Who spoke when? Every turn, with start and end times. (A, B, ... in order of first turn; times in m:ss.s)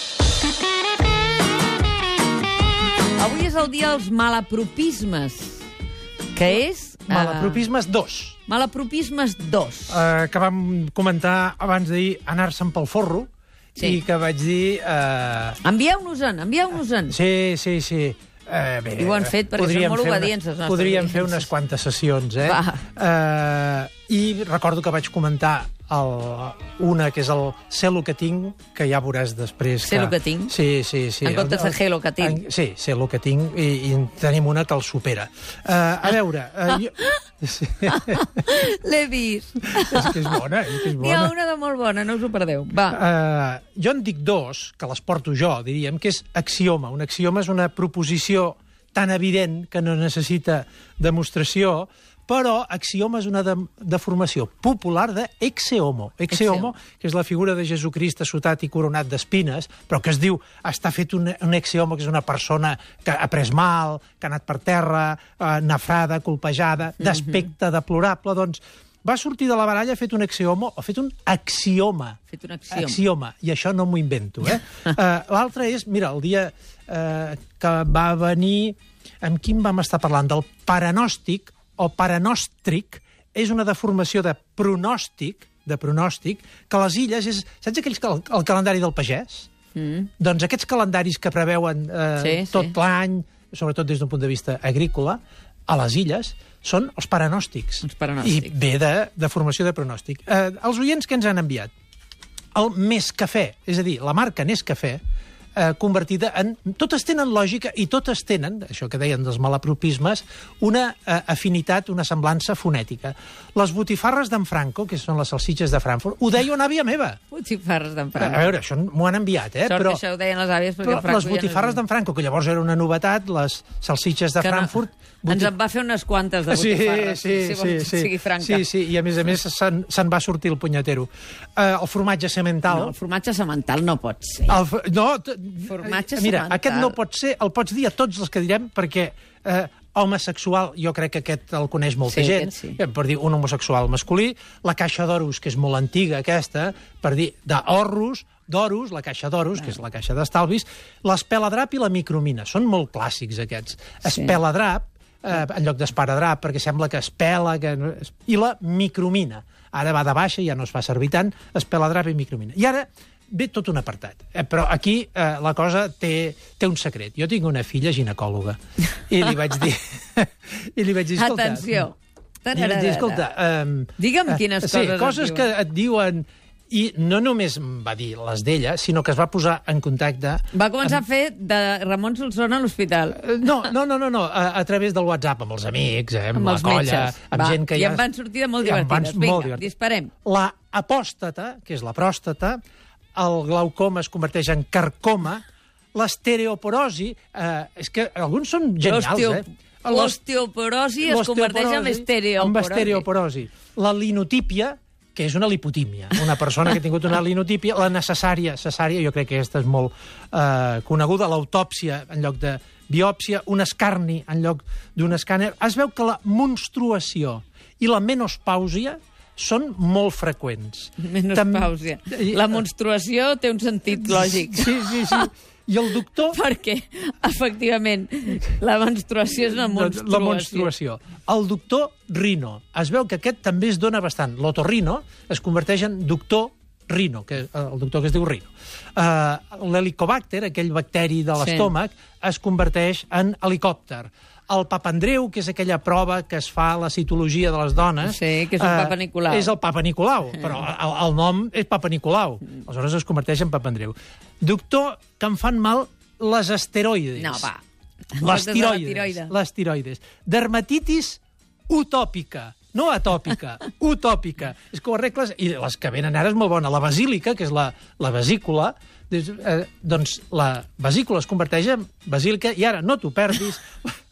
0:03.2-0:05.7 A
0:06.3-0:07.6 A
0:07.1-0:08.4 B
0:08.5-0:10.0 A
0:09.9-0:15.6 B
0:15.6-0:17.2 A
0:17.1-0:38.4 B
0:19.0-0:21.5 A
0:22.4-0:22.8 A
0:29.8-0:30.5 A
0:31.2-0:32.4 A
0:37.9-0:40.4 A
0:39.7-0:41.3 B
0:40.9-0:43.0 A
0:42.9-1:12.2 B
0:56.3-0:56.7 A
1:07.0-1:07.4 A
1:12.3-1:13.0 A
1:12.7-1:29.5 B
1:29.7-1:30.1 A
1:30.2-1:41.7 B
1:32.2-1:32.7 A
1:37.8-1:38.5 A
1:42.5-1:45.0 B
1:45.6-1:57.2 B
1:57.3-1:58.5 A
1:58.2-2:00.0 B
1:59.6-2:01.8 A
2:00.8-2:05.5 B
2:04.4-2:09.0 A
2:06.5-2:12.9 B
2:12.7-2:14.6 A
2:14.5-2:51.8 B
2:15.6-2:17.0 A
2:22.1-2:22.8 A
2:34.0-2:34.4 A
2:51.1-2:53.3 A
2:52.5-3:01.0 B
2:54.0-2:55.5 A
3:00.5-3:03.2 A
3:03.1-3:08.1 B
3:06.3-3:10.1 A
3:08.6-3:09.7 B
3:10.2-3:12.6 B
3:13.1-3:15.4 B
3:15.9-3:20.2 B
3:18.8-3:23.0 A
3:21.0-3:42.6 B
3:41.0-3:45.3 A
3:43.9-3:46.4 B
3:46.2-3:50.7 A
3:49.5-4:17.5 B
4:01.4-4:01.7 A
4:08.0-4:09.5 A
4:17.2-4:17.6 A
4:18.1-4:19.3 A
4:18.2-4:33.9 B